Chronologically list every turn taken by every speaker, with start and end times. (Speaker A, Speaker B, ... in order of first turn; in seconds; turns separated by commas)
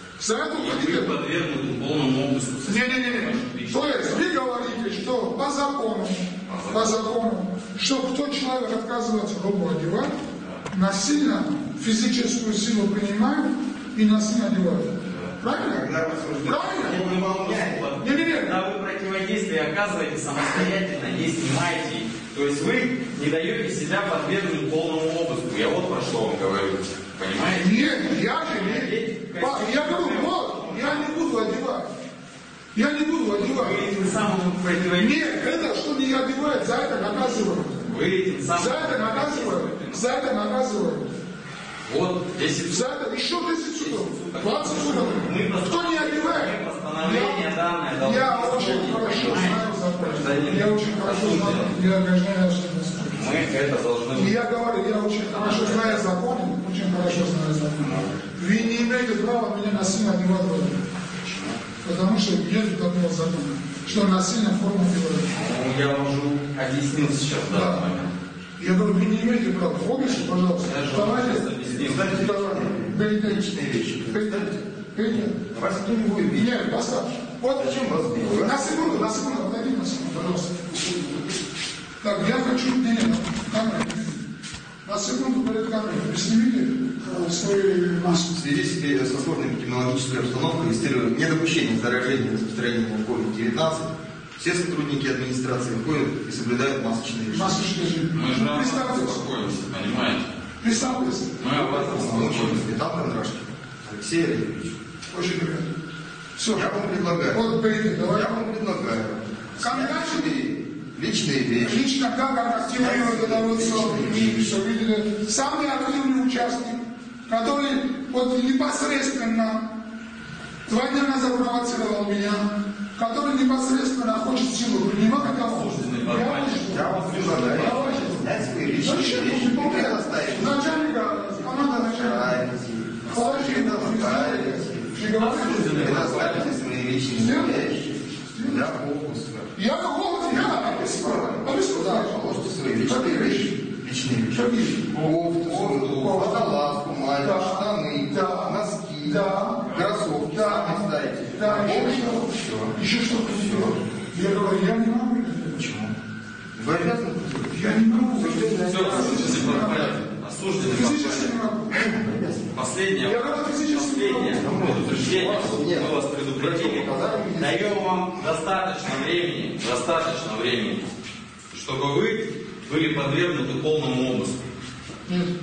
Speaker A: 0.2-1.1, Speaker B: 0.6-4.9, Speaker A: 2.6-10.2, Speaker B: 6.5-7.1, Speaker B: 10.4-10.6, Speaker A: 10.7-15.9, Speaker B: 15.0-15.4, Speaker C: 15.5-17.9, Speaker A: 16.4-17.0, Speaker B: 16.5-31.3, Speaker A: 18.0-18.6, Speaker A: 27.5-31.9, Speaker A: 32.7-33.9, Speaker B: 33.3-35.3, Speaker A: 35.0-38.0, Speaker B: 36.9-40.1, Speaker A: 38.5-41.1, Speaker B: 41.9-42.9, Speaker A: 42.7-53.5, Speaker B: 43.8-51.8, Speaker B: 53.0-54.5, Speaker A: 54.1-60.8, Speaker B: 55.2-56.1, Speaker B: 57.8-58.9, Speaker B: 61.2-61.6, Speaker A: 61.8-65.3, Speaker B: 65.3-68.1, Speaker A: 67.5-67.8, Speaker A: 68.6-71.5, Speaker B: 70.0-72.2, Speaker C: 71.7-76.6, Speaker A: 72.1-73.5, Speaker A: 74.1-75.3, Speaker A: 76.3-81.3, Speaker C: 77.5-79.2, Speaker A: 82.0-84.2, Speaker A: 84.8-88.4, Speaker C: 88.3-97.6, Speaker A: 97.3-99.2, Speaker B: 98.1-102.7, Speaker A: 100.6-102.1, Speaker C: 101.6-104.8, Speaker A: 105.1-105.7, Speaker A: 106.4-108.4, Speaker C: 106.5-111.9, Speaker A: 109.6-110.4, Speaker A: 111.6-119.7, Speaker C: 112.5-114.5, Speaker A: 120.7-132.4, Speaker B: 125.0-128.1, Speaker C: 126.7-130.9, Speaker C: 131.7-135.0, Speaker A: 133.1-136.1, Speaker B: 135.1-136.5, Speaker C: 135.8-139.6, Speaker A: 137.1-137.7, Speaker A: 138.3-138.7, Speaker A: 139.6-143.6, Speaker C: 140.2-153.8, Speaker A: 144.3-144.9, Speaker B: 145.0-145.8, Speaker A: 145.5-155.6, Speaker C: 155.5-156.0, Speaker C: 156.6-157.6, Speaker A: 157.5-160.0, Speaker C: 158.2-160.0, Speaker B: 158.7-161.3, Speaker A: 160.6-161.8, Speaker C: 161.7-162.6, Speaker B: 162.5-170.9, Speaker A: 163.0-164.5, Speaker C: 164.4-168.3, Speaker B: 171.5-174.5